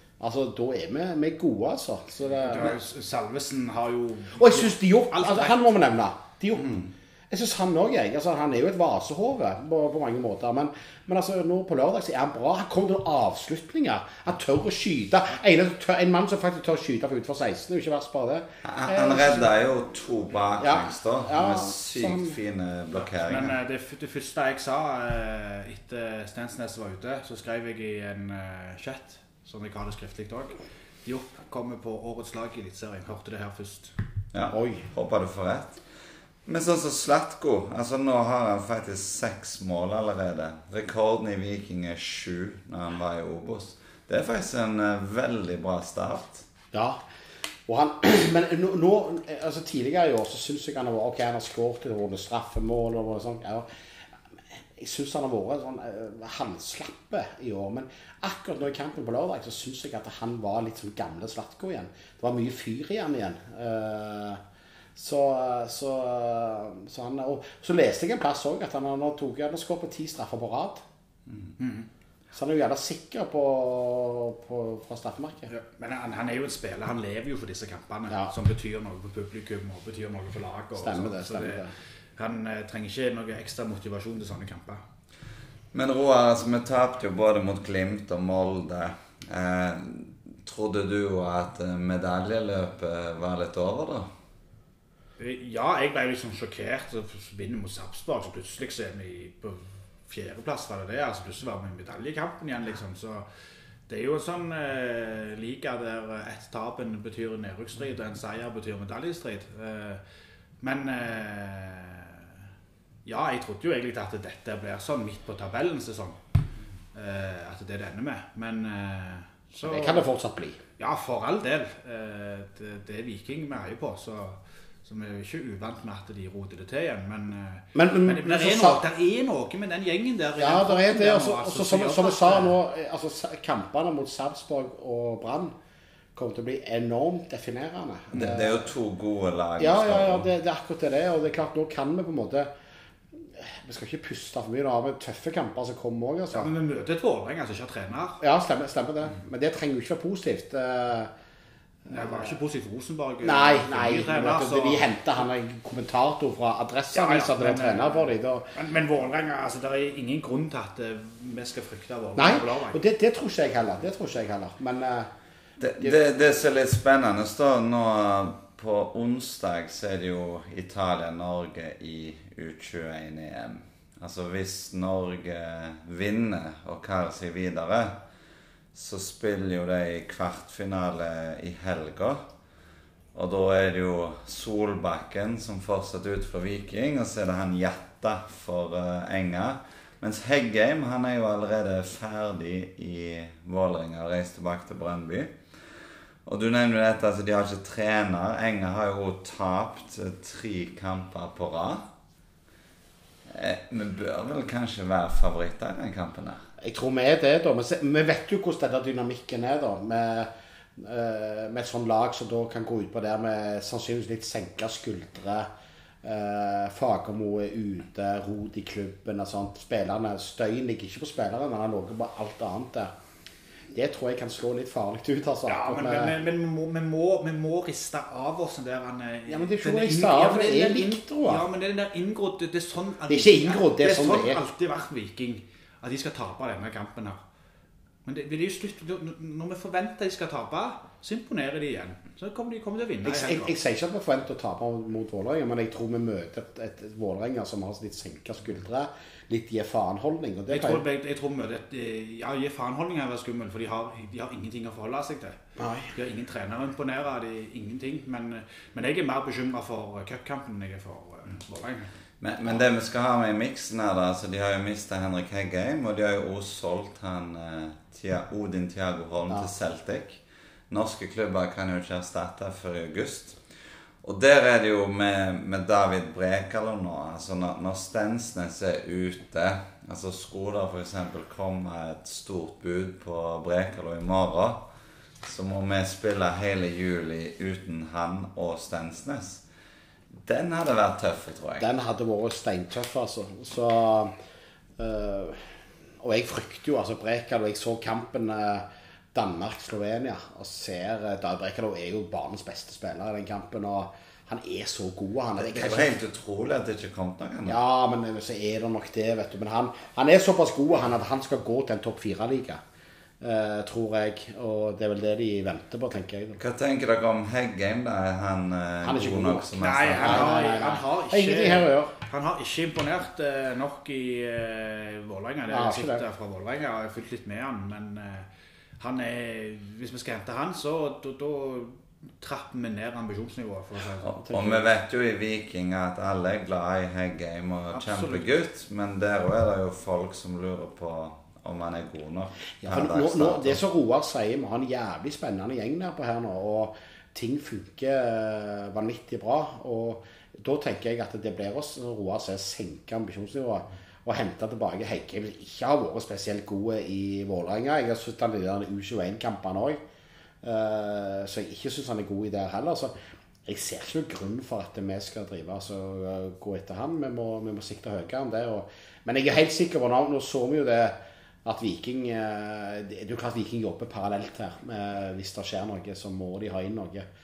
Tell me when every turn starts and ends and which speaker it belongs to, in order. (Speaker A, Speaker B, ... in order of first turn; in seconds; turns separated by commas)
Speaker A: 0.2-2.8, Speaker B: 2.4-5.7, Speaker A: 4.3-19.5, Speaker B: 6.6-6.9, Speaker C: 18.6-23.6, Speaker A: 20.6-22.4, Speaker B: 22.9-33.9, Speaker C: 34.3-35.8, Speaker A: 34.5-34.9, Speaker C: 36.5-46.5, Speaker A: 46.7-47.0, Speaker A: 47.7-53.7, Speaker A: 54.8-64.4, Speaker A: 64.9-70.8, Speaker B: 71.6-71.9, Speaker A: 72.3-75.5, Speaker B: 75.5-81.6, Speaker A: 80.8-81.7, Speaker B: 82.2-84.8, Speaker C: 85.7-94.1, Speaker B: 95.2-103.2, Speaker B: 103.9-110.0, Speaker B: 110.6-112.3, Speaker B: 113.0-116.2, Speaker B: 116.9-120.1, Speaker A: 119.6-120.6, Speaker B: 120.8-132.6, Speaker A: 127.7-128.8, Speaker A: 130.4-135.5, Speaker A: 136.1-138.7, Speaker C: 138.1-140.3, Speaker A: 139.6-142.5, Speaker A: 143.2-146.5, Speaker B: 146.3-148.2, Speaker A: 148.2-151.1, Speaker A: 151.8-152.3, Speaker B: 151.9-154.9, Speaker A: 153.2-158.5, Speaker B: 156.9-162.8, Speaker A: 162.2-165.1, Speaker C: 165.6-178.0, Speaker C: 178.7-182.2, Speaker C: 183.1-195.3, Speaker C: 196.2-201.9, Speaker C: 203.3-206.4, Speaker A: 206.6-215.5, Speaker A: 216.0-222.9, Speaker A: 223.7-226.1, Speaker B: 225.4-237.2, Speaker A: 229.3-231.4, Speaker A: 233.1-234.4, Speaker B: 238.0-243.5, Speaker A: 243.0-250.8, Speaker B: 250.5-255.4, Speaker A: 255.6-255.9, Speaker B: 255.9-261.9, Speaker C: 262.2-273.4, Speaker C: 274.0-284.6, Speaker C: 285.2-289.4, Speaker C: 290.2-291.7, Speaker A: 291.6-294.1, Speaker A: 294.8-306.0, Speaker C: 305.4-307.6, Speaker A: 307.4-312.6, Speaker A: 313.2-316.4, Speaker C: 316.4-320.3, Speaker A: 318.8-321.9, Speaker B: 319.6-328.3, Speaker A: 325.5-326.0, Speaker B: 328.8-334.4, Speaker C: 334.0-343.6, Speaker B: 337.7-338.2, Speaker A: 342.6-359.8, Speaker A: 360.4-362.9, Speaker A: 363.4-377.1